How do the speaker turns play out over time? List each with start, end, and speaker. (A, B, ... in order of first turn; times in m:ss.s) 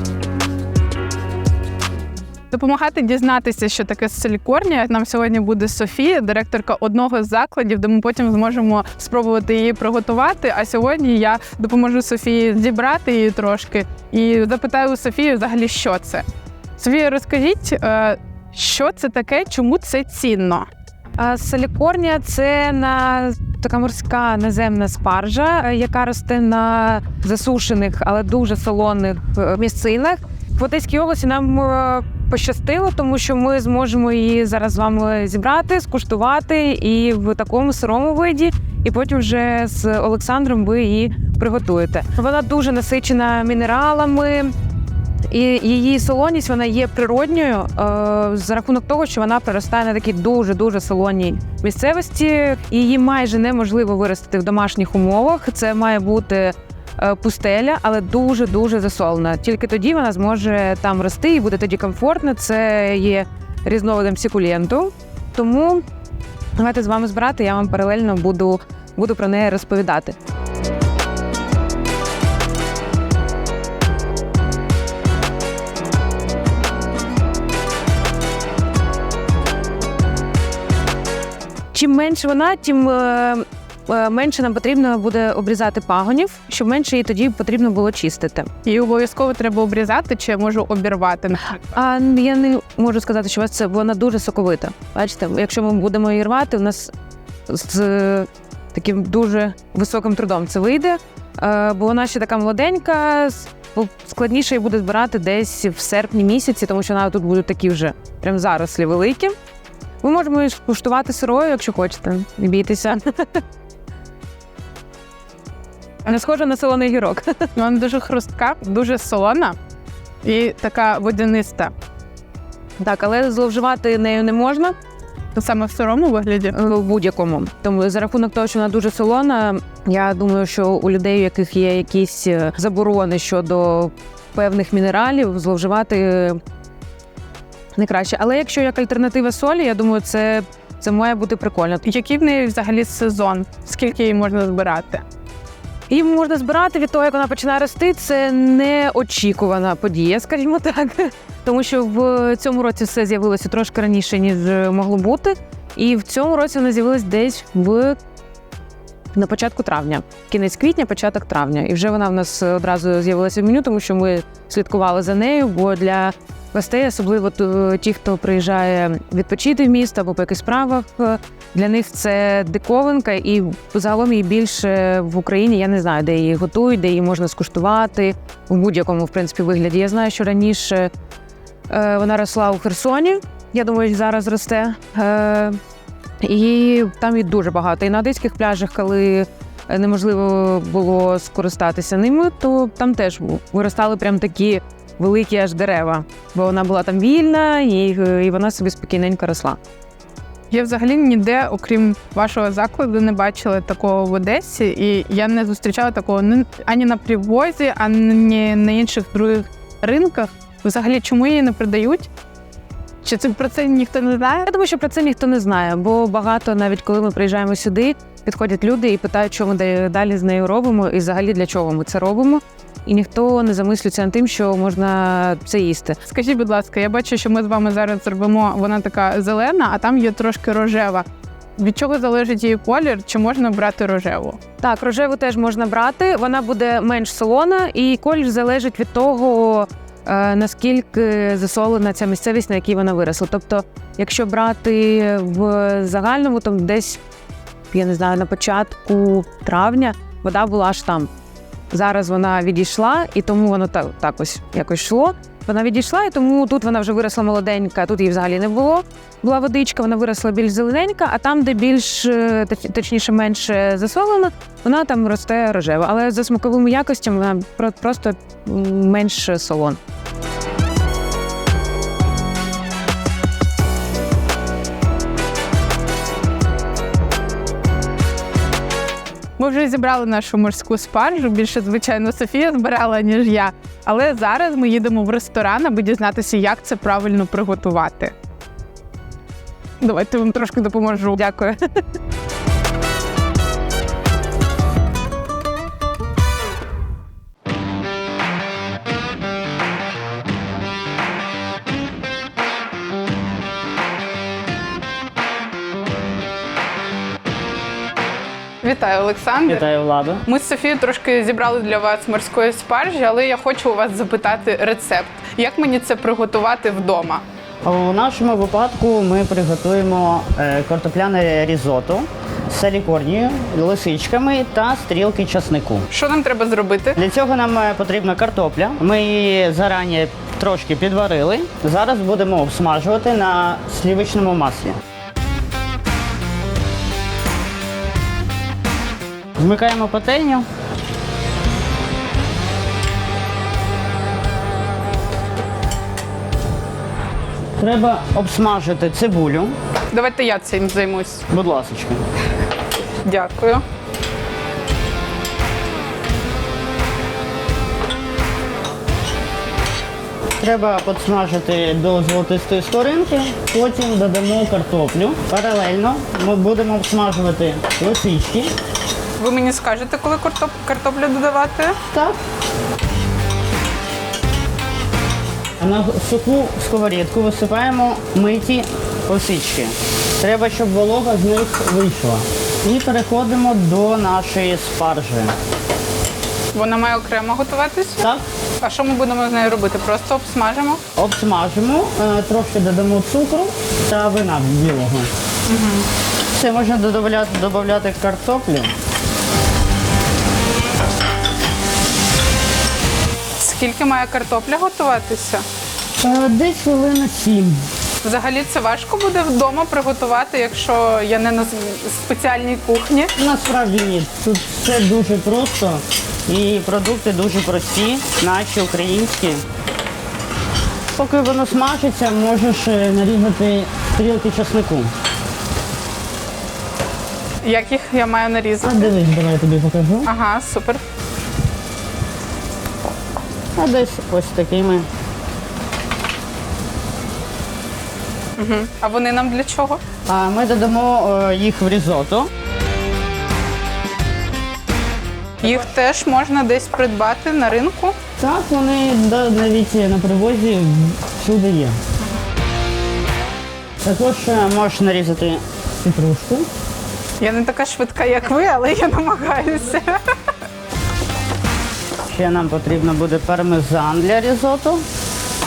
0:02.5-0:16.2 A
0:16.8-0:20.7 A
0:21.2-0:44.5 B
0:45.3-1:05.8 B
1:06.6-1:10.2 B
1:21.7-1:28.5 B
1:28.6-1:31.6 A
1:31.6-1:36.9 B
1:37.5-1:49.3 B
1:50.0-1:53.4 B
1:56.0-1:57.5 B
1:57.6-1:59.6 A
2:00.2-2:01.7 A
2:02.8-2:04.8 B
2:05.3-2:06.6 A
2:06.5-2:16.4 B
2:17.8-2:21.8 B
2:21.8-2:25.0 A
2:25.9-2:38.0 B
2:39.1-3:00.9 B
3:01.7-3:05.6 B
3:06.2-3:19.6 B
3:20.5-3:32.1 A
3:33.0-3:34.4 A
3:34.4-3:46.0 B
3:46.1-3:51.0 A
3:51.6-3:54.4 A
3:54.6-4:07.0 B
4:07.7-4:11.1 B
4:11.7-4:29.8 B
4:39.4-4:48.1 A
4:49.8-4:51.1 A
4:50.9-4:51.6 B
5:08.6-5:09.6 A
5:09.4-5:10.2 C
5:10.2-5:17.2 A
5:17.6-5:25.9 C
5:25.9-5:27.0 A
5:27.0-5:34.8 C
5:39.4-5:40.4 C
5:47.6-5:49.6 C
5:49.9-5:51.2 A
5:51.3-5:52.0 C
5:53.0-5:53.6 A
6:00.4-6:08.5 C
6:09.2-6:11.8 A
6:11.9-6:12.2 C
6:15.6-6:25.3 C
6:26.5-6:28.0 A
6:28.0-6:28.2 C
6:28.6-6:30.8 A
6:30.9-6:35.1 C
6:35.4-6:35.9 A
6:36.3-6:38.7 C
6:43.4-6:45.4 A
6:46.0-6:47.6 C
6:48.0-6:53.1 A
6:53.2-6:59.4 C
7:01.0-7:04.9 C
7:07.4-7:08.9 A
7:08.6-7:10.1 C
7:10.0-7:10.8 A
7:13.6-7:14.9 C
7:18.4-7:19.8 A
7:20.1-7:22.3 C
7:25.4-7:28.0 A
7:28.2-7:31.8 C
7:33.8-7:36.5 C
7:37.2-7:40.0 A
7:42.1-7:44.8 C